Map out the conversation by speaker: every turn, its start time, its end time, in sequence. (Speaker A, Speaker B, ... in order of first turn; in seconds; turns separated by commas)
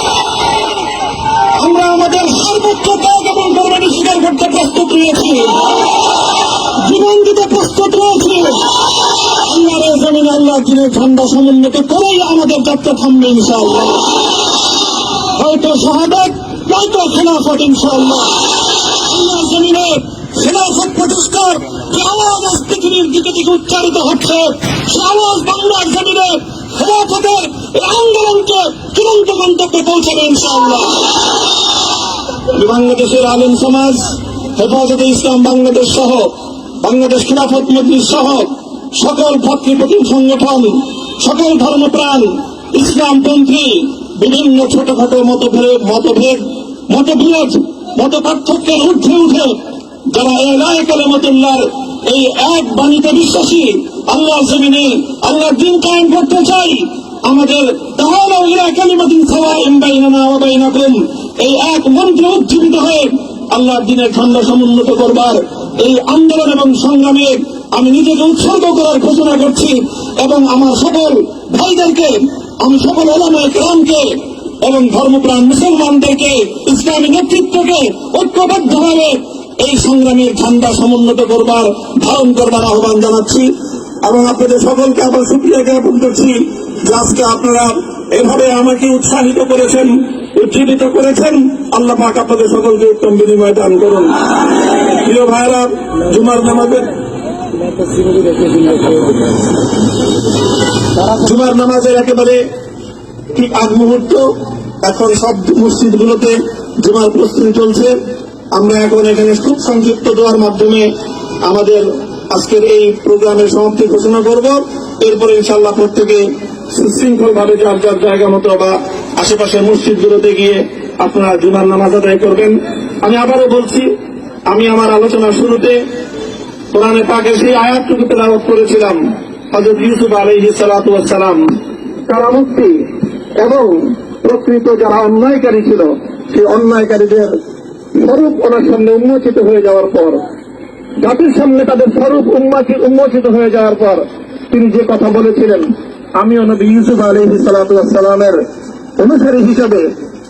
Speaker A: 1.5-5.8, Speaker A: 6.8-8.7, Speaker A: 9.3-14.1, Speaker A: 15.3-31.1, Speaker A: 32.5-83.5, Speaker A: 84.0-94.2, Speaker A: 94.9-96.9, Speaker A: 101.1-102.4, Speaker A: 103.3-104.3, Speaker A: 104.8-108.0, Speaker A: 108.5-110.9, Speaker A: 111.4-123.9, Speaker A: 124.5-125.8, Speaker A: 126.7-131.5, Speaker A: 132.1-137.3, Speaker A: 137.9-140.2, Speaker A: 141.0-148.4, Speaker A: 149.0-149.9